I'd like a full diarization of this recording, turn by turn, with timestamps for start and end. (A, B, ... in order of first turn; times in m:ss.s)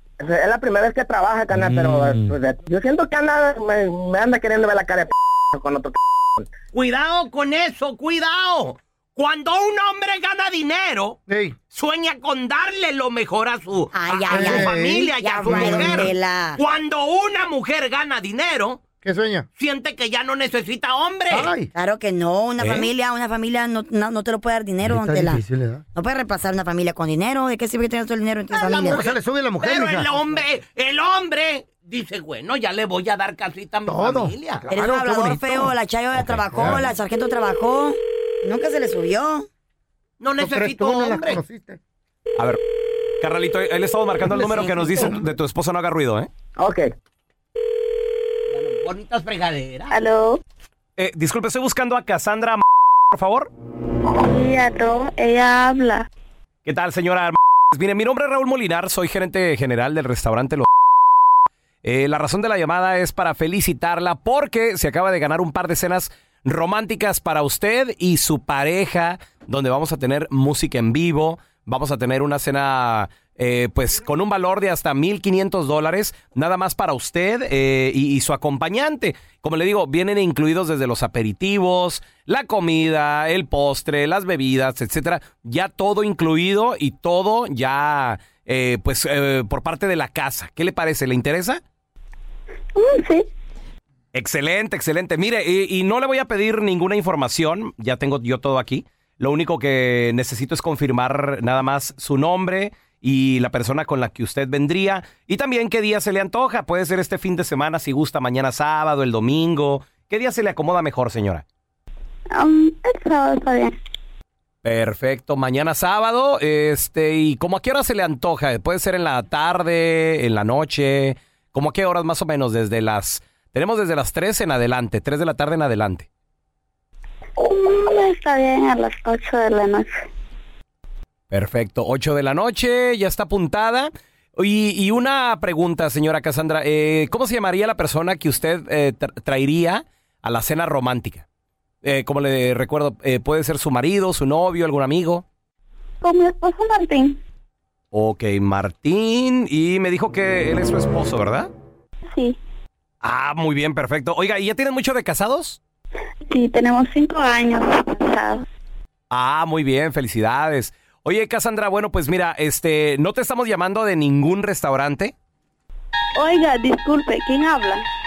0:00.2-0:06.5 A
0:01.6-0:02.3 B
0:06.7-0:11.2 C
0:11.3-0:11.6 D
0:11.7-0:18.8 C
0:13.9-0:16.6 E
0:14.3-0:16.1 D
0:19.0-0:19.5 D
0:19.6-0:21.5 C
0:21.3-0:21.7 D
0:21.7-0:25.4 E
0:22.6-0:22.9 B
0:24.8-0:25.8 D
0:25.9-0:29.0 E
0:28.5-0:34.6 C
0:28.8-0:30.2 D
0:33.8-0:36.9 D
0:34.7-0:39.5 E
0:40.2-0:41.4 C
0:40.4-0:41.8 D
0:43.2-0:46.3 B
0:44.2-0:45.2 D
0:46.6-0:46.9 A
0:48.5-0:49.9 C
0:49.9-0:50.4 F
0:51.0-0:53.5 B
0:54.0-0:56.0 F
0:56.6-1:00.6 B
1:01.8-1:31.6 B
1:32.7-1:33.3 F
1:34.1-1:51.4 B
1:52.3-1:53.8 F
1:54.6-2:06.1 B
2:07.4-2:10.0 F
2:11.3-2:21.2 B
2:21.8-2:25.2 B
2:26.0-2:27.2 F
2:27.9-2:31.5 B
2:32.1-2:32.4 F
2:33.0-2:35.6 B
2:36.3-2:38.4 F
2:39.1-2:45.1 B
2:46.2-2:47.8 F